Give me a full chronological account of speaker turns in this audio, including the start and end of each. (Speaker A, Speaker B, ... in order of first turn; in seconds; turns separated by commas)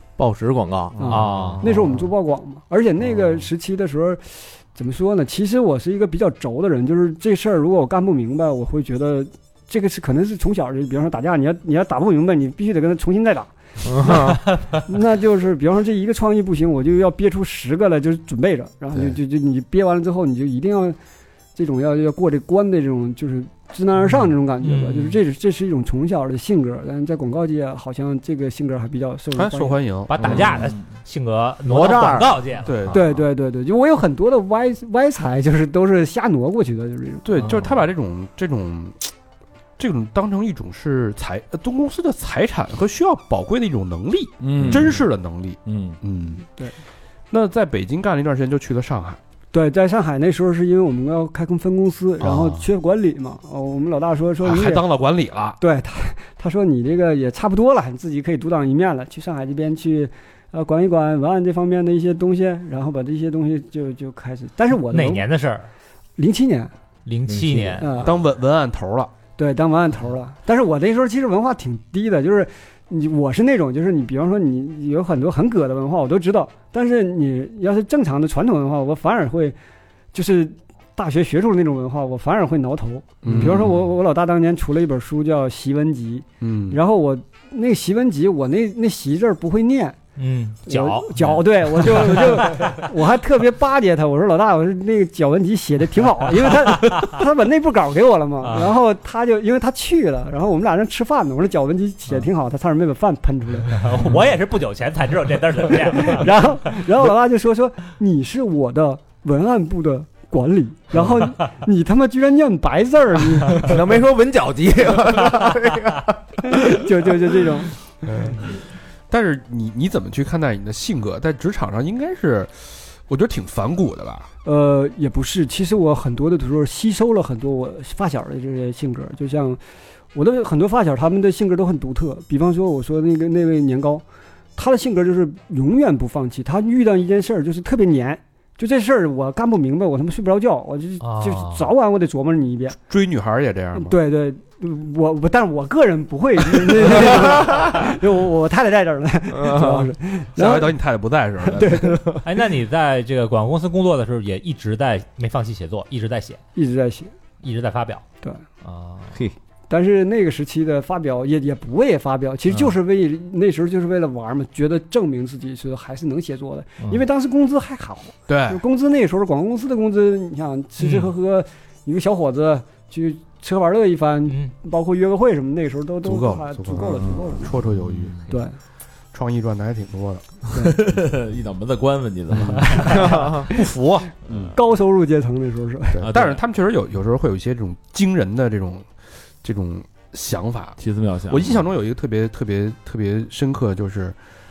Speaker A: 0.2-1.5, Speaker B: 0.9-1.7, Speaker C: 1.0-14.2, Speaker D: 1.1-1.6, Speaker A: 13.8-14.4, Speaker C: 14.8-21.0, Speaker C: 21.5-29.8, Speaker D: 24.6-25.2, Speaker E: 29.4-30.4, Speaker D: 30.1-32.7, Speaker B: 30.2-30.8, Speaker A: 30.2-30.6, Speaker A: 31.6-32.4, Speaker E: 32.6-33.2, Speaker C: 32.9-37.3, Speaker E: 37.2-39.0, Speaker B: 37.3-37.8, Speaker E: 39.8-46.4, Speaker B: 44.4-45.0, Speaker B: 45.6-46.0, Speaker E: 47.3-49.2, Speaker C: 49.5-54.8, Speaker E: 52.2-52.6, Speaker E: 54.4-55.6, Speaker C: 55.6-65.2, Speaker D: 64.7-65.7, Speaker C: 66.2-66.7, Speaker D: 67.0-68.0, Speaker A: 67.3-68.0, Speaker C: 67.8-68.1, Speaker E: 68.0-69.1, Speaker C: 69.4-79.5, Speaker C: 80.1-90.0, Speaker E: 83.2-83.8, Speaker E: 86.4-86.8, Speaker D: 90.2-92.8, Speaker C: 90.7-103.8, Speaker D: 96.7-97.1, Speaker D: 98.4-98.7, Speaker D: 103.7-106.3, Speaker C: 105.9-113.8, Speaker A: 113.5-116.6, Speaker C: 116.4-117.7, Speaker E: 118.0-118.5, Speaker E: 119.1-124.3, Speaker C: 124.4-129.6, Speaker C: 130.1-134.0, Speaker C: 134.6-142.8, Speaker D: 141.0-141.7, Speaker E: 142.9-143.9, Speaker C: 143.8-150.7, Speaker A: 149.3-149.9, Speaker E: 150.3-152.2, Speaker C: 151.5-152.2, Speaker D: 152.2-156.4, Speaker C: 156.6-157.1, Speaker D: 157.4-158.0, Speaker D: 158.6-159.1, Speaker C: 159.7-177.5, Speaker E: 168.3-168.6, Speaker D: 170.8-171.1, Speaker D: 174.3-174.5, Speaker E: 176.0-178.2, Speaker B: 177.7-178.2, Speaker C: 178.3-178.6, Speaker E: 179.1-180.4, Speaker B: 180.6-183.6, Speaker E: 182.3-182.9, Speaker A: 182.9-183.4, Speaker B: 184.3-184.6, Speaker E: 184.3-184.5, Speaker C: 184.5-186.0, Speaker E: 186.0-188.9, Speaker B: 186.0-186.4, Speaker E: 189.4-194.2, Speaker B: 190.8-191.6